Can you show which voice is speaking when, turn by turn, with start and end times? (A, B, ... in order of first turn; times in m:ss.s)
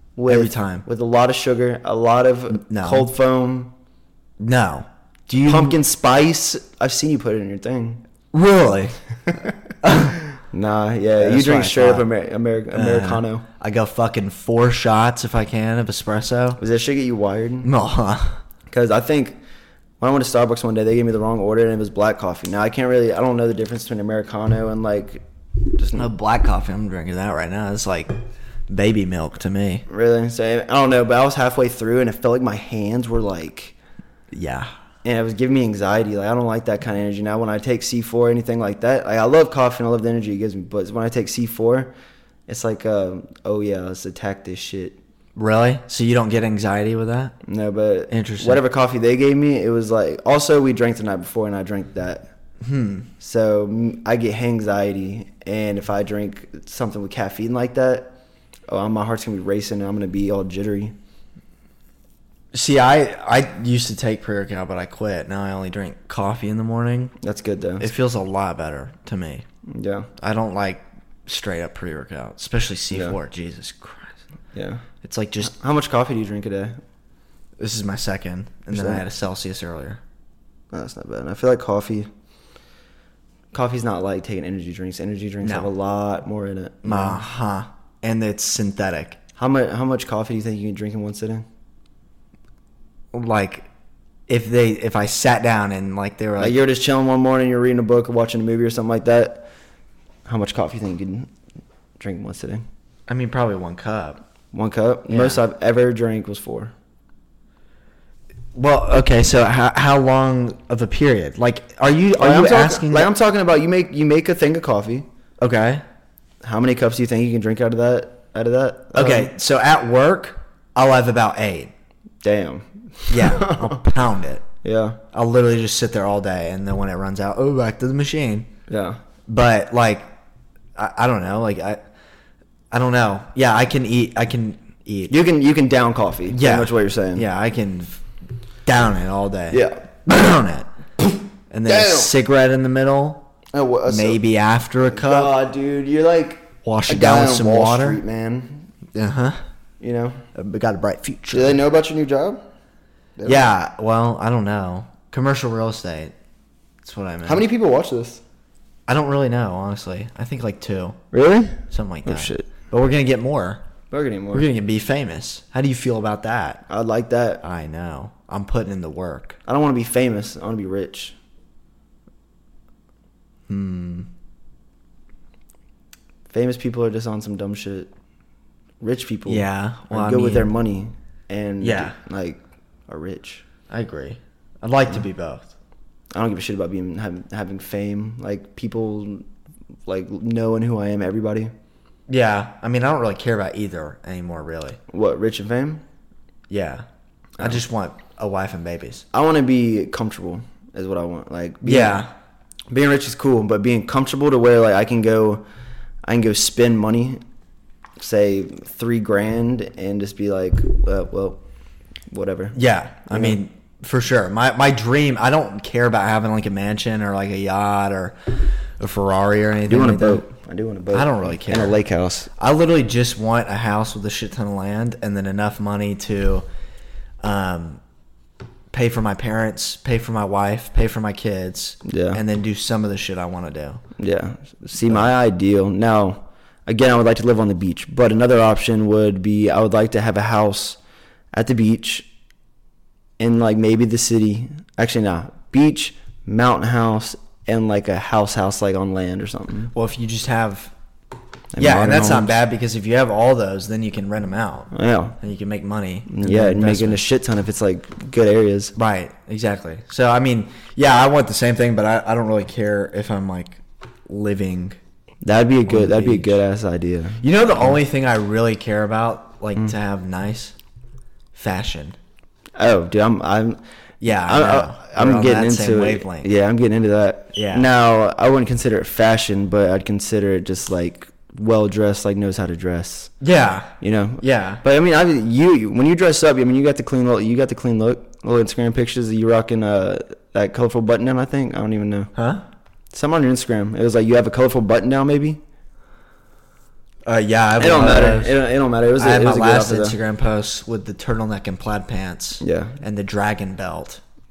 0:00.2-0:03.7 A
0:00.3-0:00.8 B
0:02.5-0:03.1 B
0:04.4-0:05.8 B
0:05.4-0:08.0 A
0:08.3-0:09.0 B
0:09.3-0:13.4 A
0:09.8-0:10.2 B
0:11.2-0:12.0 B
0:12.7-0:16.6 B
0:16.6-0:17.7 A
0:17.6-0:18.4 B
0:18.7-0:19.4 A
0:20.0-0:25.2 A
0:25.7-0:26.1 A
0:26.0-0:28.1 B
0:28.7-0:29.8 B
0:29.9-0:33.7 A
0:34.3-0:34.7 B
0:35.0-0:41.9 A
0:42.5-0:45.0 A
0:45.4-0:47.3 B
0:47.4-0:52.3 A
0:48.1-0:48.6 B
0:52.6-0:53.1 B
0:53.2-0:58.1 A
0:58.7-1:00.9 A
1:02.5-1:07.1 B
1:07.2-1:07.9 A
1:07.8-1:09.4 B
1:09.6-1:10.1 A
1:10.2-1:14.2 B
1:14.5-1:14.8 A
1:15.0-1:15.5 B
1:15.4-1:16.8 A
1:17.6-1:20.0 B
1:18.7-1:19.0 A
1:20.7-1:22.1 A
1:23.5-1:27.2 A
1:25.4-1:25.7 B
1:26.8-1:29.2 B
1:29.4-1:31.4 A
1:33.1-1:33.7 B
1:34.3-1:36.6 B
1:36.4-1:39.5 A
1:40.2-1:41.3 A
1:42.0-1:42.6 A
1:43.1-1:44.2 B
1:44.5-1:46.7 A
1:45.1-1:45.4 B
1:48.5-1:53.1 B
1:52.2-1:55.1 A
1:55.4-1:55.8 B
1:56.4-1:59.3 A
1:58.9-2:01.7 B
2:02.2-2:03.8 A
2:03.1-2:04.4 B
2:04.6-2:05.0 A
2:05.1-2:08.5 B
2:08.7-2:09.0 A
2:09.3-2:10.0 B
2:10.8-2:11.8 B
2:12.7-2:15.1 B
2:15.1-2:17.2 A
2:16.3-2:18.0 B
2:18.6-2:20.7 B
2:19.5-2:19.8 A
2:21.5-2:23.2 B
2:21.6-2:22.1 A
2:23.5-2:24.2 A
2:23.9-2:25.3 B
2:24.9-2:28.7 A
2:26.6-2:28.0 B
2:28.9-2:29.4 B
2:29.8-2:30.2 A
2:30.3-2:31.6 B
2:31.3-2:32.4 A
2:33.2-2:33.5 A
2:33.2-2:36.1 B
2:36.8-2:37.4 B
2:37.2-2:38.2 A
2:38.9-2:41.0 B
2:41.1-2:42.5 A
2:41.7-2:43.6 B
2:43.9-2:44.5 A
2:44.3-2:46.6 B
2:46.7-2:47.4 A
2:47.4-2:49.4 B
2:49.4-2:51.2 A
2:53.5-2:54.1 B
2:56.3-2:57.9 A
2:58.8-3:03.4 A
2:59.3-3:00.5 B
3:01.6-3:02.0 B
3:03.7-3:05.5 B
3:06.1-3:09.2 A
3:09.8-3:11.5 A
3:12.1-3:14.8 B
3:14.9-3:15.8 A
3:16.5-3:16.8 B
3:17.4-3:19.0 B
3:19.1-3:22.0 A
3:21.6-3:22.1 B
3:22.7-3:25.4 A
3:26.0-3:27.2 A
3:28.0-3:31.4 A
3:32.1-3:32.6 A
3:32.5-3:40.2 B
3:33.1-3:33.4 A
3:39.7-3:42.3 A
3:40.9-3:41.8 B
3:42.4-3:46.4 B
3:47.2-3:47.8 B
3:48.7-3:53.8 B
3:51.8-3:52.2 A
3:54.0-4:00.8 A
4:01.3-4:02.1 A
4:03.2-4:09.7 A
4:09.7-4:10.7 B
4:11.5-4:12.3 A
4:11.6-4:17.0 B
4:14.7-4:15.2 A
4:16.1-4:18.7 A
4:18.8-4:24.8 B
4:25.2-4:27.3 A
4:25.6-4:26.4 B
4:27.2-4:30.5 B
4:31.3-4:32.0 B
4:32.6-4:33.6 A
4:34.0-4:36.3 B
4:34.1-4:43.1 A
4:37.3-4:37.7 B
4:43.2-4:44.6 B
4:43.8-4:52.1 A
4:52.1-4:52.4 B
4:52.9-4:55.4 A
4:57.0-4:58.4 B
4:57.6-5:00.0 A
4:59.0-5:04.0 B
5:02.4-5:02.8 A